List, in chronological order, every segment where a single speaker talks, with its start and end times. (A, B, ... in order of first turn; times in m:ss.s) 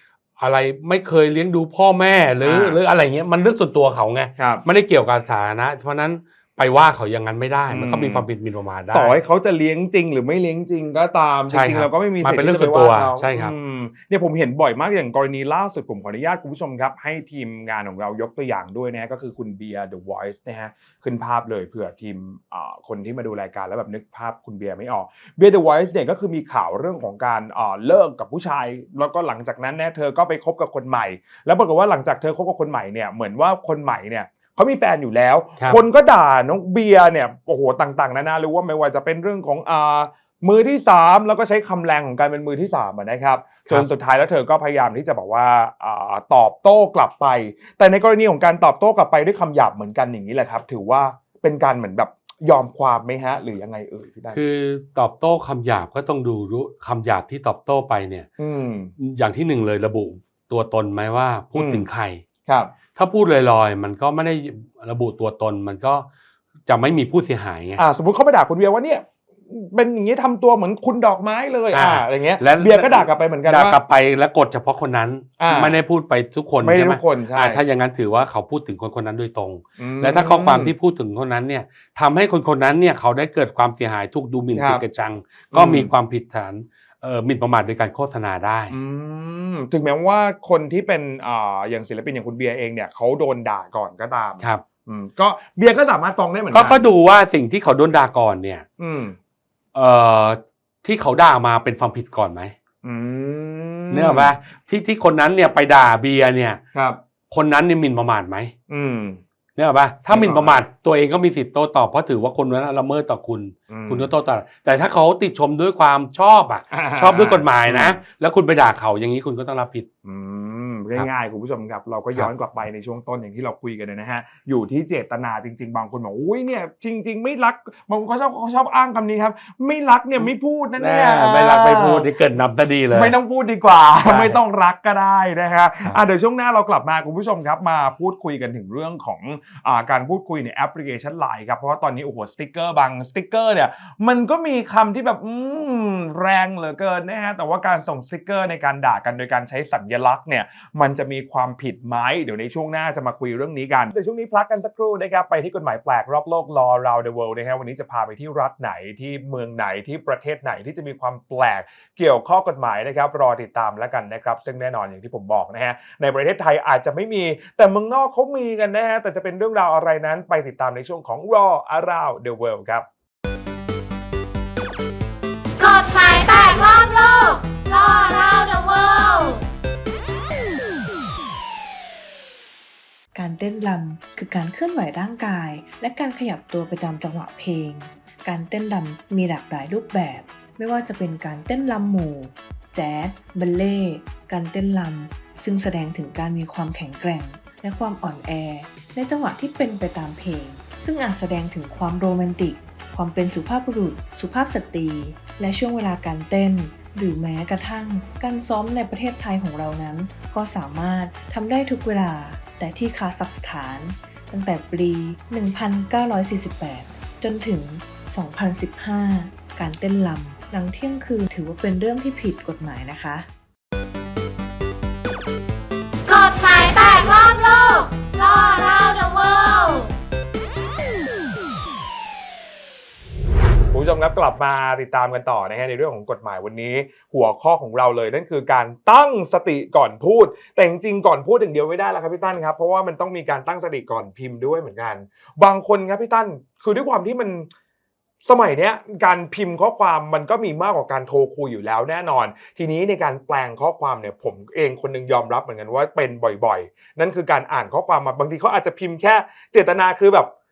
0:00.4-0:09.1 A
0:02.4-0:02.8 B
0:04.4-0:04.6 B
0:07.7-0:08.2 B
0:08.9-0:54.4 B
0:11.5-0:13.5 A
0:54.3-0:58.3 A
0:58.4-0:58.9 B
0:59.0-1:02.2 A
1:01.5-1:01.8 B
1:02.4-1:02.7 B
1:02.9-1:06.1 A
1:06.7-1:07.8 A
1:07.8-1:13.8 B
1:11.7-1:28.7 A
1:15.4-1:15.8 B
1:16.6-1:17.6 B
1:19.8-1:20.7 B
1:24.6-1:24.8 B
1:25.5-1:25.9 B
1:28.7-1:36.8 B
1:36.5-1:38.6 A
1:38.8-1:39.2 B
1:39.7-1:42.5 A
1:42.8-1:44.3 B
1:43.9-1:46.6 A
1:46.7-1:47.0 B
1:47.3-1:48.5 A
1:48.7-1:49.2 B
1:49.6-1:59.9 A
1:50.1-1:50.6 B
1:53.7-1:54.1 B
1:56.7-1:58.0 B
2:00.0-2:12.1 B
2:10.8-2:13.2 A
2:12.9-2:52.8 B
2:14.0-2:14.4 A
2:55.6-2:59.4 C
3:03.1-3:43.3 D
3:46.1-3:49.9 C
3:53.7-4:07.5 B
4:08.2-4:20.3 B